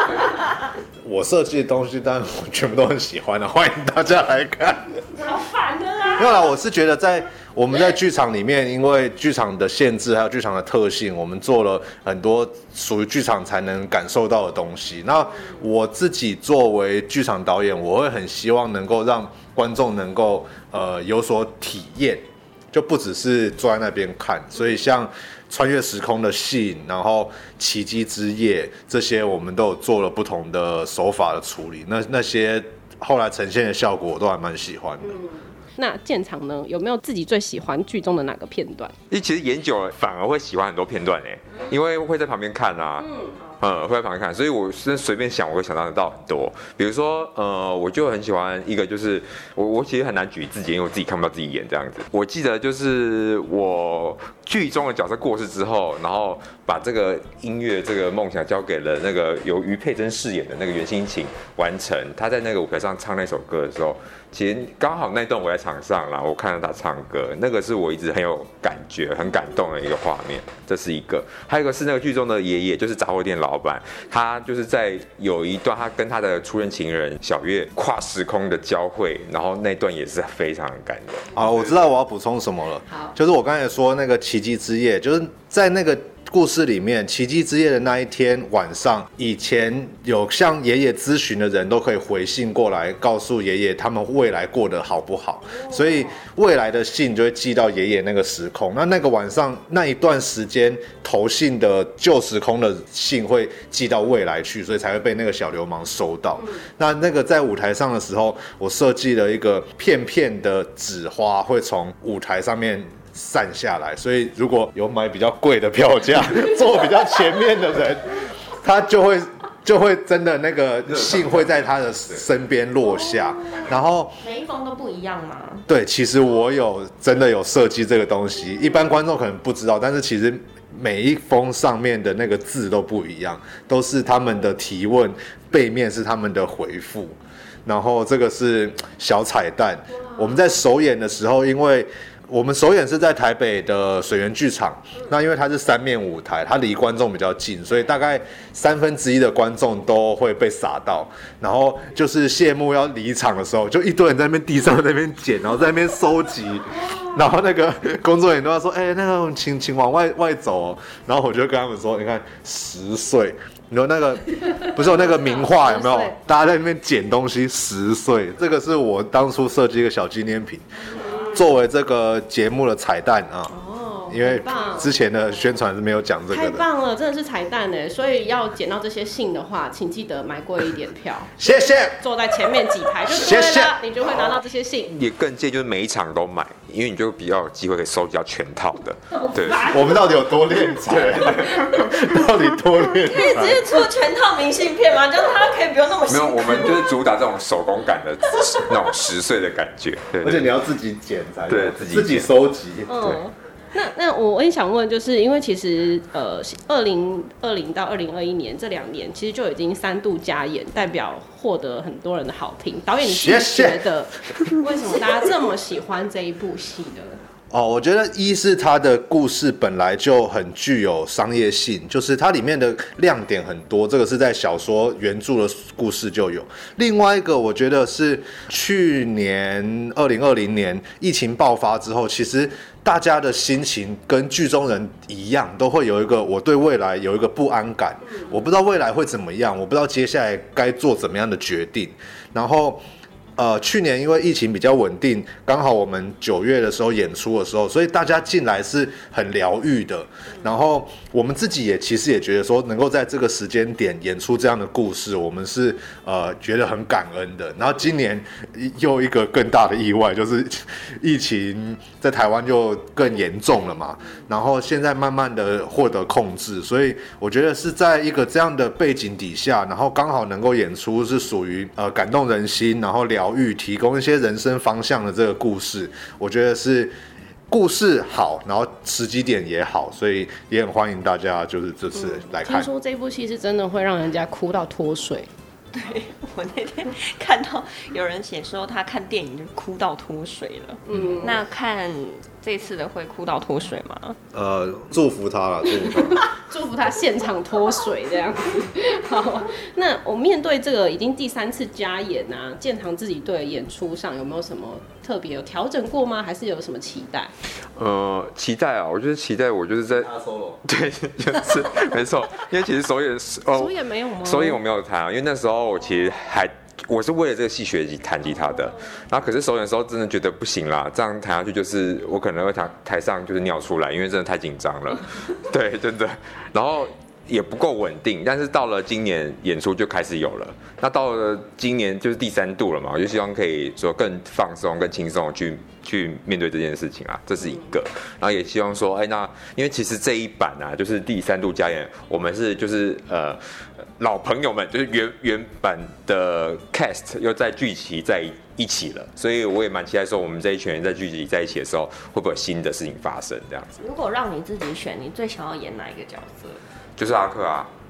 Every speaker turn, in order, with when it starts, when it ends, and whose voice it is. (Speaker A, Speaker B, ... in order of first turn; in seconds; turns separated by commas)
Speaker A: 1.0-5.0, Speaker B: 5.2-6.2, Speaker C: 5.2-6.4, Speaker A: 6.2-35.2, Speaker B: 35.0-38.9, Speaker D: 39.1-81.4, Speaker B: 43.0-43.4, Speaker A: 81.3-124.2, Speaker D: 120.9-122.2, Speaker C: 124.2-125.7, Speaker A: 125.7-173.5, Speaker B: 165.0-166.2, Speaker B: 171.0-171.4, Speaker B: 173.5-174.9, Speaker A: 174.1-176.6, Speaker B: 176.3-181.3, Speaker A: 181.4-182.0, Speaker B: 182.0-184.9, Speaker A: 183.0-183.8, Speaker D: 184.9-189.8, Speaker B: 189.1-190.1, Speaker A: 189.5-193.7, Speaker D: 190.8-192.2, Speaker C: 193.0-196.9, Speaker D: 196.1-200.5, Speaker A: 200.2-203.1, Speaker D: 201.5-202.3, Speaker B: 202.9-217.2, Speaker A: 213.0-213.8, Speaker A: 217.5-242.8, Speaker A: 243.4-276.9, Speaker A: 277.5-282.7, Speaker B: 282.0-285.3, Speaker C: 285.7-294.2, Speaker B: 290.9-291.4, Speaker A: 294.3-296.2, Speaker B: 296.1-307.3, Speaker D: 307.7-310.1, Speaker A: 309.9-310.6, Speaker D: 310.6-353.7, Speaker B: 313.5-314.6, Speaker C: 353.8-356.6, Speaker D: 357.0-357.7